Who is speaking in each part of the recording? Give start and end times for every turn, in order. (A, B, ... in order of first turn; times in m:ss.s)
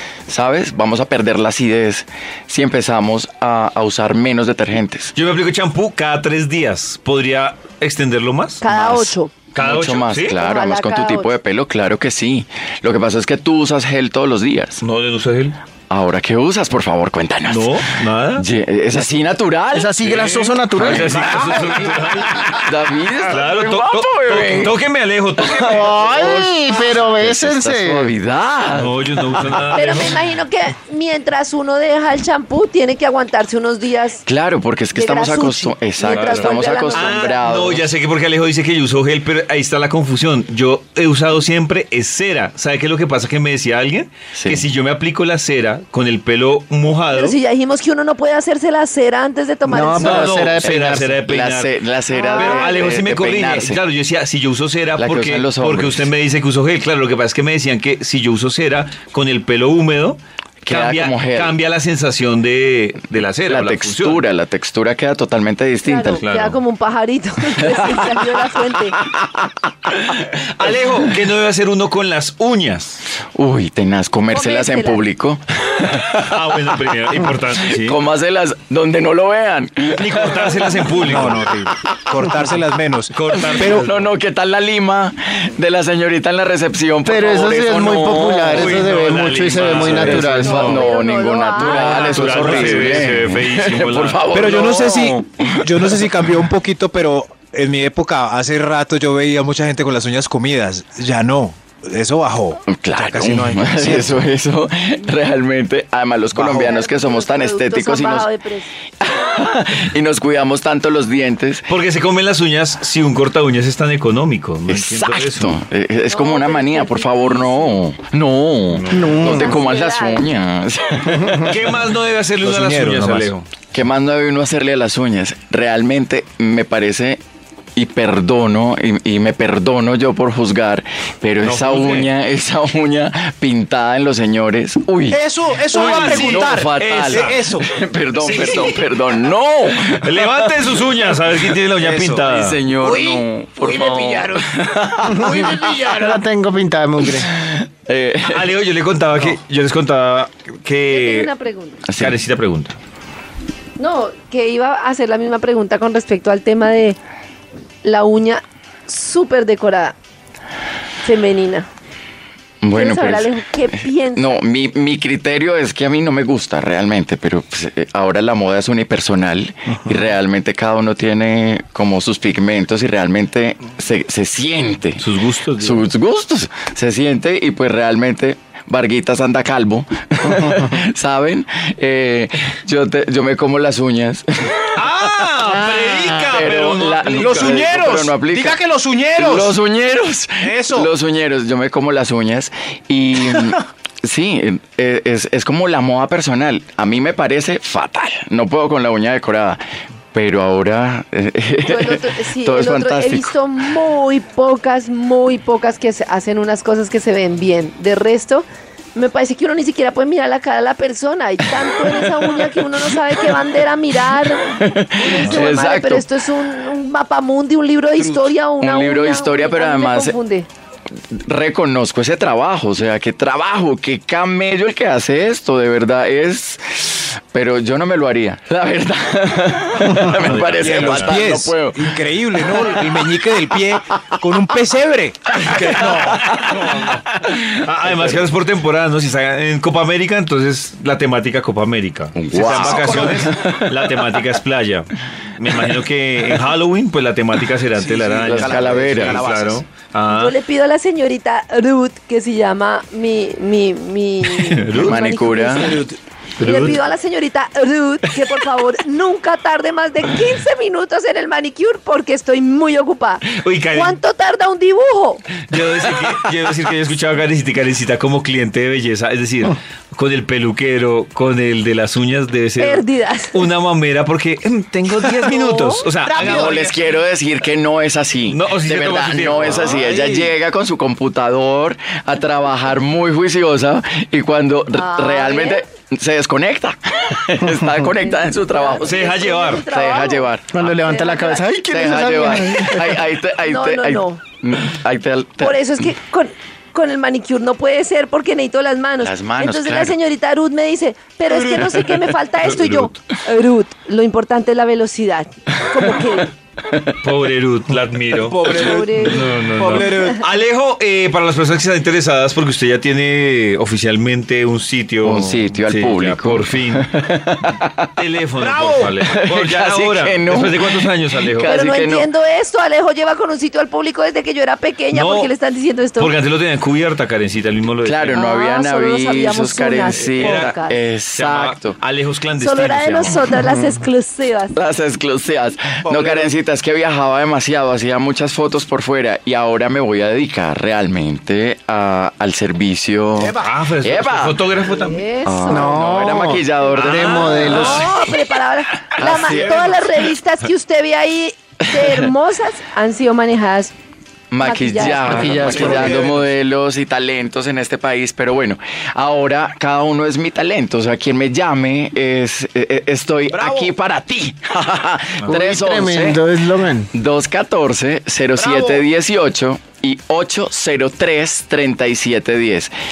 0:00.3-0:05.1 A
0:05.2-0:08.6 B
0:08.6-0:09.3 C
0:08.7-0:14.8 A
0:09.5-0:10.4 B
0:10.4-0:11.3 C
0:14.8-0:15.6 B
0:15.9-0:20.3 A
0:17.5-0:18.5 B
0:19.7-0:21.7 D
0:20.1-0:22.7 B
0:20.9-0:24.8 A
0:23.2-0:26.1 B
0:25.4-0:29.8 A
0:25.6-0:28.1 D
0:28.7-0:30.2 B
0:29.7-0:34.2 C
0:34.3-0:37.9 A
0:34.9-0:37.4 C
0:36.0-0:47.4 B
0:44.3-0:44.6 A
0:47.1-0:50.5 C
0:49.7-0:51.1 D
0:50.0-0:51.7 B
0:50.2-0:53.8 A
0:52.1-0:52.9 C
0:52.4-1:04.2 B
0:55.0-0:56.1 A
1:00.6-1:01.6 A
1:03.5-1:06.2 A
1:05.8-1:09.0 C
1:06.1-1:06.6 B
1:07.6-1:08.1 A
1:09.0-1:10.2 A
1:10.2-1:13.0 B
1:13.4-1:22.4 A
1:14.3-1:15.0 C
1:16.1-1:18.0 B
1:20.0-1:21.4 B
1:21.0-1:23.9 E
1:23.1-1:24.1 B
1:23.3-1:28.9 A
1:27.0-1:30.7 D
1:28.5-1:30.8 B
1:29.6-1:36.1 A
1:29.7-1:30.1 E
1:30.4-1:32.8 C
1:31.6-1:32.9 E
1:31.8-1:34.2 B
1:34.3-1:44.2 E
1:42.7-1:48.3 A
1:46.3-1:46.7 E
1:46.5-1:48.7 C
1:49.0-1:51.7 A
1:51.7-1:55.6 B
1:54.7-2:01.6 A
1:56.1-1:57.8 C
1:58.7-1:59.2 B
1:58.9-1:59.6 D
1:59.2-2:00.2 C
2:01.4-2:03.5 B
2:02.4-2:03.3 E
2:03.7-2:07.2 A
2:07.8-2:20.8 A
2:11.4-2:12.1 B
2:15.1-2:17.7 E
2:15.7-2:17.4 B
2:18.2-2:18.8 E
2:18.2-2:18.8 B
2:20.0-2:22.6 B
2:21.8-2:22.3 E
2:22.3-2:25.9 A
2:22.8-2:26.2 E
2:25.1-2:27.3 D
2:27.1-2:28.5 A
2:28.2-2:31.3 B
2:30.9-2:31.8 C
2:31.9-2:32.2 A
2:32.0-2:32.8 B
2:33.8-2:37.0 C
2:37.8-2:40.0 C
2:41.0-2:41.7 C
2:42.6-2:43.3 A
2:42.7-2:44.3 C
2:44.1-3:04.9 A
2:55.0-2:55.9 B
3:04.8-3:07.7 B
3:06.3-3:08.6 A
3:07.0-3:09.6 E
3:09.2-3:19.6 A
3:10.4-3:10.9 E
3:20.1-3:23.3 A
3:21.6-3:40.5 C
3:31.8-3:32.5 A
3:34.5-3:36.1 A
3:35.2-3:35.5 E
3:38.6-3:40.2 A
3:41.1-3:51.9 A
3:50.1-3:51.2 B
3:50.2-3:57.1 E
3:52.4-3:52.8 A
3:55.4-3:58.3 A
3:55.6-3:56.1 B
3:57.6-4:10.4 B
4:02.2-4:04.1 A
4:02.4-4:03.3 E
4:07.7-4:09.6 E
4:08.2-4:09.3 A
4:10.1-4:15.8 C
4:14.3-4:15.0 B
4:14.8-4:15.8 A
4:15.5-4:16.0 E
4:16.4-4:16.8 B
4:16.4-4:25.3 C
4:23.3-4:24.0 B
4:25.5-4:36.7 B
4:32.6-4:33.5 C
4:35.2-4:36.3 C
4:36.1-4:36.8 E
4:36.2-4:50.7 A
4:38.3-4:39.7 B
4:39.3-4:40.3 E
4:44.7-4:45.6 C
4:48.3-4:51.5 C
4:48.8-4:49.7 B
4:50.5-4:53.0 D
4:51.6-4:55.6 A
4:53.4-4:54.2 C
4:55.4-5:06.3 C
4:59.0-5:00.0 A
5:02.4-5:02.9 B
5:07.0-5:16.8 B
5:08.2-5:10.2 E
5:08.4-5:09.3 C
5:15.0-5:17.9 A
5:18.0-5:21.5 B
5:18.4-5:19.0 E
5:19.0-5:22.1 A
5:21.4-5:26.1 C
5:24.9-5:25.3 B
5:26.0-5:28.2 B
5:27.8-5:31.8 A
5:28.1-5:30.8 C
5:29.9-5:30.5 B
5:31.1-5:33.2 B
5:32.4-5:34.5 C
5:34.6-5:44.4 A
5:35.8-5:36.3 E
5:43.2-5:43.6 E
5:43.4-5:45.0 B
5:44.6-5:46.2 C
5:45.2-5:47.8 A
5:45.5-5:47.9 D
5:46.8-5:47.9 B
5:47.4-5:47.7 E
5:47.5-5:53.7 C
5:49.0-5:49.7 A
5:49.0-5:49.9 B
5:51.8-5:52.1 A
5:54.3-6:06.2 A
5:54.4-5:56.0 C
5:54.8-5:56.0 D
5:55.2-5:56.3 E
6:03.3-6:03.7 E
6:05.3-6:06.9 D
6:06.9-6:12.7 A
6:08.4-6:08.8 E